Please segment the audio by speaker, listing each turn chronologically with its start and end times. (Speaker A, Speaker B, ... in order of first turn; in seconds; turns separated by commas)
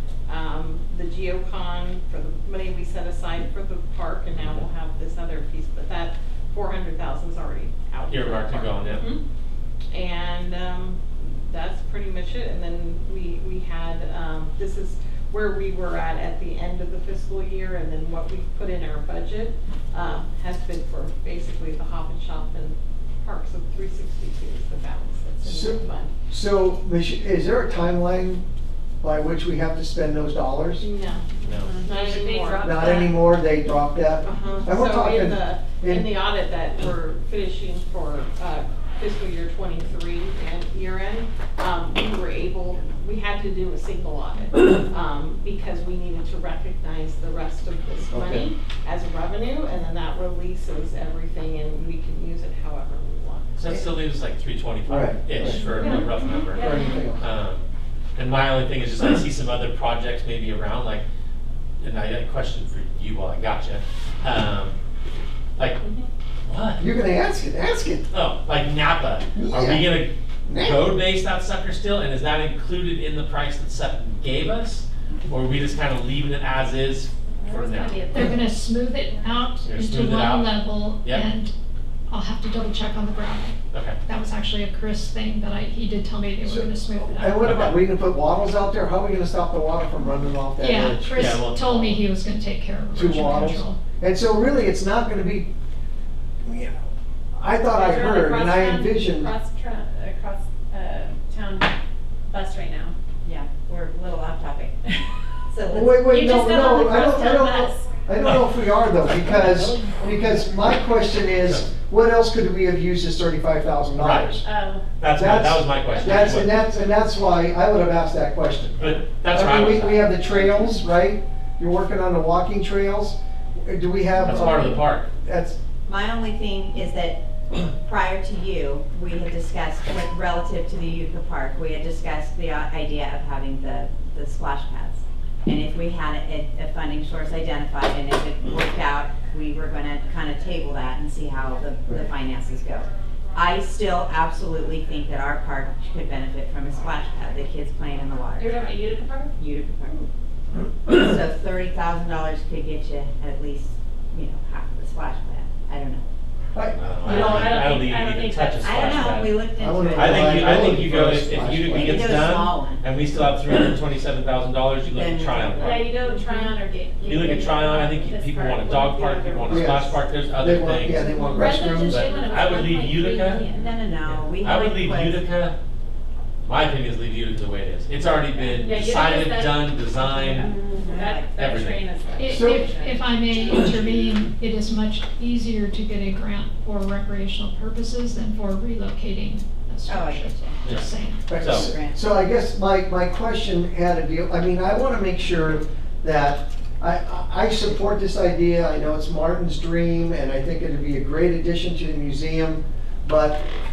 Speaker A: 0.3-9.2, Speaker B: 4.4-4.7, Speaker B: 8.1-9.1, Speaker A: 9.9-26.1, Speaker C: 25.4-28.4, Speaker C: 29.0-30.9, Speaker A: 30.8-31.3, Speaker B: 31.4-31.8, Speaker D: 31.6-33.2, Speaker A: 31.8-33.0, Speaker C: 32.6-36.1, Speaker A: 34.2-53.6, Speaker C: 48.1-48.5, Speaker B: 53.6-61.0, Speaker C: 54.9-55.9, Speaker D: 55.6-57.0, Speaker C: 56.5-57.2, Speaker B: 61.8-64.8, Speaker B: 65.6-65.8, Speaker B: 66.5-66.8, Speaker C: 66.8-68.1, Speaker B: 68.1-78.1, Speaker C: 69.4-70.9, Speaker D: 77.3-78.4, Speaker E: 78.1-81.5, Speaker B: 79.6-81.3, Speaker E: 82.1-87.6, Speaker B: 83.7-84.0, Speaker C: 86.5-91.4, Speaker B: 87.4-87.8, Speaker E: 90.6-93.8, Speaker B: 91.1-92.1, Speaker C: 92.9-95.5, Speaker C: 96.5-96.8, Speaker C: 97.3-99.3, Speaker D: 97.7-101.8, Speaker D: 102.3-102.9, Speaker F: 103.2-104.8, Speaker F: 105.5-106.2, Speaker C: 105.7-114.4, Speaker D: 106.1-107.9, Speaker B: 108.2-108.5, Speaker B: 109.3-110.0, Speaker B: 111.4-111.7, Speaker B: 114.0-114.4, Speaker D: 114.4-114.8, Speaker B: 115.0-116.5, Speaker C: 115.1-125.6, Speaker D: 115.9-116.5, Speaker B: 118.8-120.5, Speaker B: 124.2-125.1, Speaker F: 125.9-148.6, Speaker D: 148.4-149.3, Speaker F: 149.4-150.1, Speaker F: 150.9-156.1, Speaker C: 156.5-157.8, Speaker B: 156.7-165.8, Speaker D: 157.0-158.9, Speaker F: 158.6-160.9, Speaker C: 159.6-162.2, Speaker F: 161.7-162.8, Speaker F: 164.9-166.5, Speaker D: 165.6-169.9, Speaker B: 167.0-173.4, Speaker C: 169.5-172.1, Speaker D: 171.1-173.8, Speaker F: 173.4-175.2, Speaker B: 174.1-175.6, Speaker B: 176.4-180.5, Speaker D: 178.6-183.0, Speaker F: 180.6-181.4, Speaker B: 181.3-181.8, Speaker E: 182.2-191.3, Speaker C: 182.3-182.7, Speaker F: 189.9-190.6, Speaker B: 190.6-191.7, Speaker C: 191.3-203.4, Speaker F: 191.4-192.0